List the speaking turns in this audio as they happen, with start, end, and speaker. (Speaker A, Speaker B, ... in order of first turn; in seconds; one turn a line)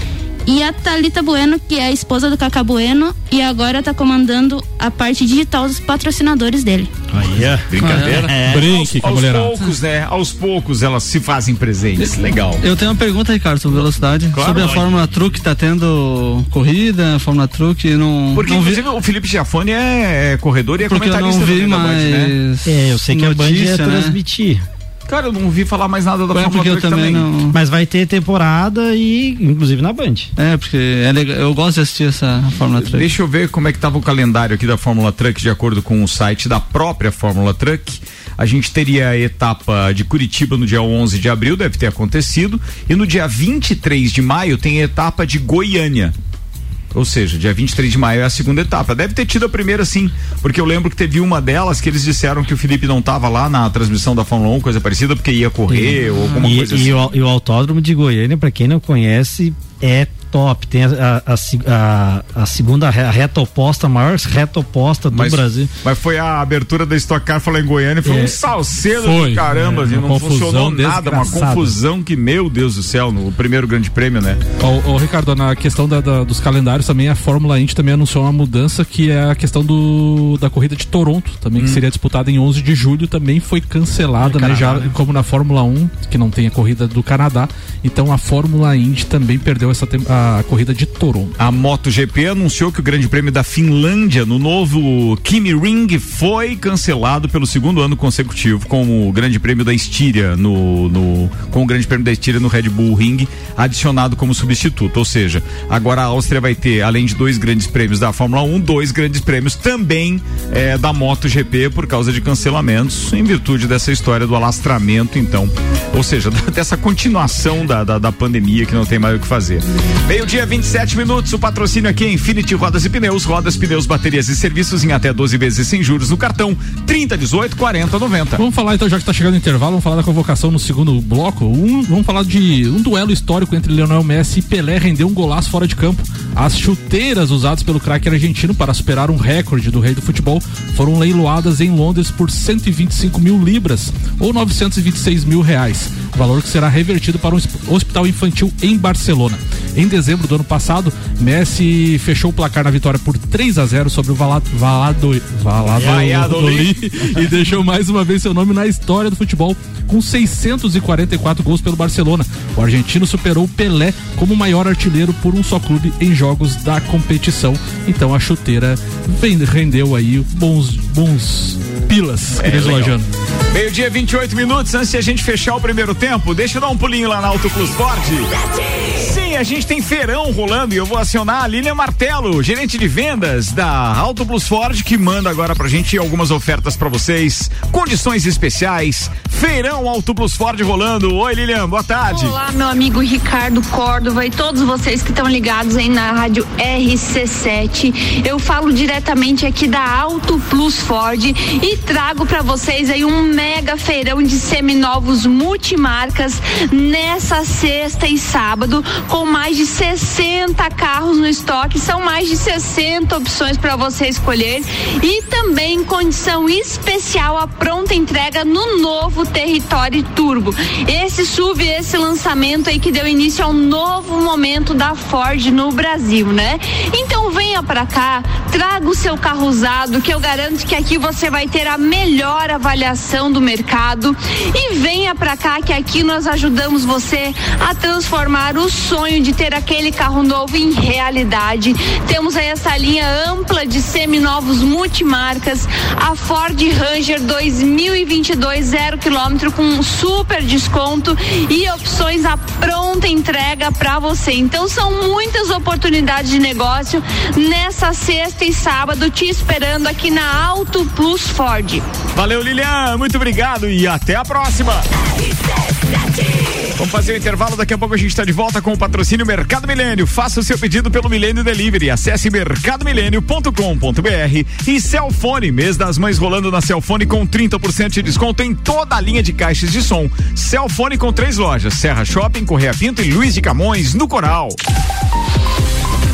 Speaker A: 0.5-6.9
Speaker B: 7.1-8.7
Speaker C: 7.7-12.6
Speaker D: 7.8-8.3
Speaker E: 8.3-9.5
Speaker D: 12.6-18.8
Speaker C: 13.8-15.1
Speaker C: 18.3-22.3
Speaker D: 20.9-24.1
Speaker B: 22.6-24.6
Speaker C: 25.1-27.3
Speaker D: 26.3-27.6
Speaker B: 27.5-30.3
Speaker D: 30.4-33.1
Speaker C: 32.8-46.1
Speaker C: 46.9-57.1
Speaker B: 55.7-65.7
Speaker C: 65.1-74.4
Speaker B: 68.0-68.4
Speaker E: 69.0-71.5
Speaker B: 71.2-71.7
Speaker E: 74.6-91.3
Speaker C: 81.6-81.8
Speaker B: 84.2-84.9
Speaker C: 91.4-128.4
Speaker E: 128.3-173.1
Speaker C: 155.7-157.4
Speaker C: 172.3-173.0
Speaker C: 173.5-178.3
Speaker C: 178.9-192.4
Speaker F: 192.1-261.9
Speaker C: 262.1-264.9
Speaker C: 266.8-284.6